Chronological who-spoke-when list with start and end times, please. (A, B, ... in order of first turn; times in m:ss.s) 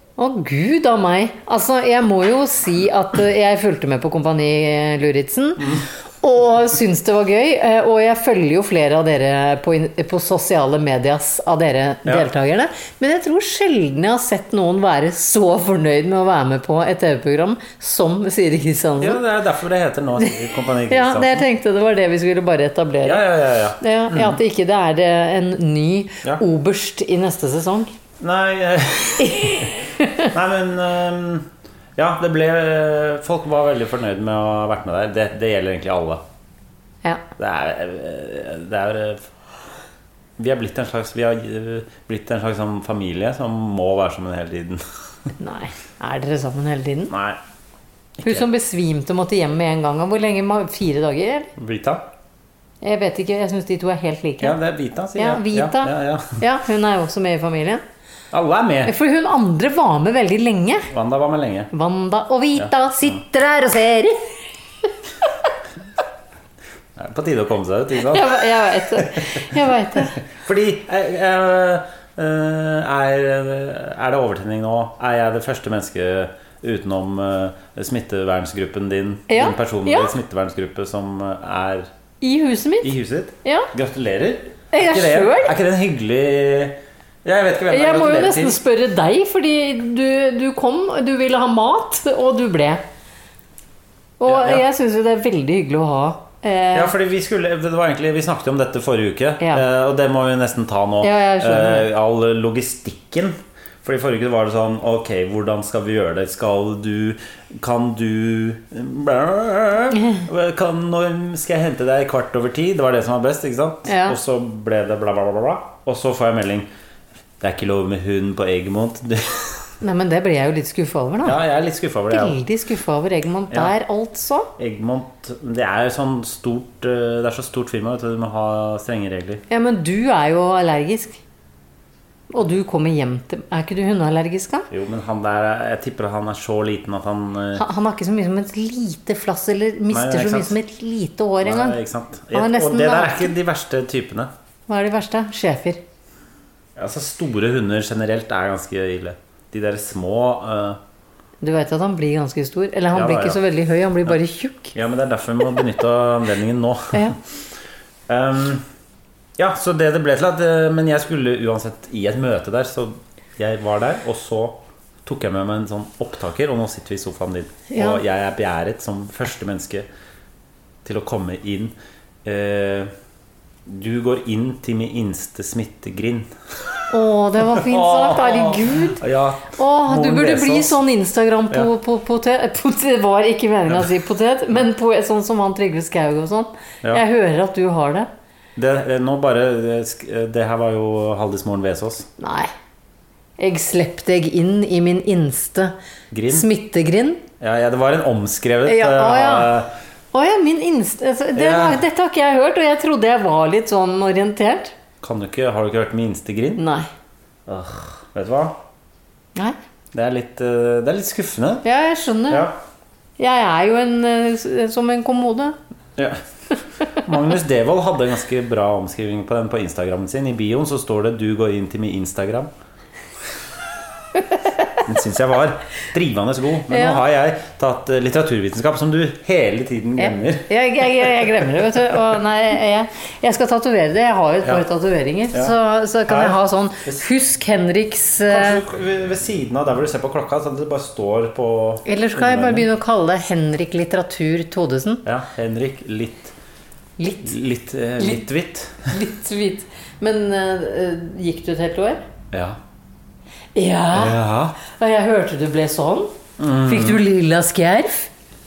0:00.2-0:19.2 A
0:19.0-0:21.4 B
0:20.9-0:23.2 A
0:23.0-0:24.4 B
0:23.8-0:27.9 A
0:28.2-0:36.2 B
0:29.2-0:30.3 A
0:37.4-0:39.3 B
0:40.4-0:44.8 B
0:45.4-0:47.1 A
0:47.1-0:47.4 B
0:48.2-0:48.4 B
0:48.2-0:51.5 A
0:51.6-0:52.0 B
0:52.8-0:54.6 A
0:54.4-0:56.4 B
0:55.2-0:57.8 A
0:58.3-0:58.9 B
0:58.8-1:00.9 A
1:00.9-1:01.7 B
1:01.7-1:04.9 A
1:07.0-1:09.5 B
1:07.9-1:10.2 A
1:10.1-1:21.9 B
1:19.3-1:20.1 A
1:22.2-1:22.9 A
1:22.8-1:28.6 B
1:23.4-1:23.7 A
1:24.7-1:25.5 A
1:27.7-1:32.8 A
1:34.2-1:36.9 A
1:34.3-1:34.6 B
1:36.7-1:56.7 B
1:41.0-1:41.9 A
1:53.8-1:54.2 A
1:57.4-1:59.7 B
1:59.8-2:01.4 A
2:01.2-2:02.4 B
2:02.1-2:04.5 A
2:04.6-2:09.4 B
2:09.5-2:11.2 A
2:12.3-2:14.7 A
2:14.7-2:17.6 B
2:17.6-2:21.8 A
2:19.9-2:20.5 B
2:21.4-2:24.3 B
2:22.3-2:23.3 A
2:24.7-2:25.8 A
2:26.8-2:30.8 B
2:31.4-2:34.7 A
2:32.9-2:33.4 B
2:34.7-2:37.2 B
2:38.1-2:38.6 B
2:39.4-2:49.9 B
2:47.7-2:48.0 A
2:50.8-2:51.7 B
2:52.2-2:52.9 B
2:53.6-2:56.3 B
2:56.9-3:08.1 A
2:57.5-3:00.8 B
3:08.6-3:12.1 B
3:12.2-3:12.5 A
3:13.4-3:15.7 A
3:16.1-3:16.5 B
3:16.3-3:17.2 A
3:17.4-3:19.7 B
3:18.6-3:19.5 A
3:20.1-3:24.7 A
3:21.4-3:21.8 B
3:25.0-3:26.6 B
3:26.6-3:26.9 A
3:27.5-3:28.6 B
3:29.9-3:31.6 B
3:31.6-3:32.5 A
3:32.3-3:32.6 B
3:33.2-3:35.6 A
3:36.8-3:42.5 B
3:44.2-3:44.6 A
3:44.8-3:50.5 B
3:46.7-3:47.0 A
3:50.0-3:58.6 A
3:56.1-3:57.0 B
3:58.3-4:02.7 B
4:01.8-4:05.0 A
4:05.0-4:06.3 B
4:07.0-4:07.3 A
4:07.2-4:08.9 B
4:08.0-4:08.2 A
4:08.9-4:12.0 A
4:12.3-4:12.6 B
4:13.5-4:18.1 A
4:13.9-4:14.6 B
4:16.4-4:17.0 B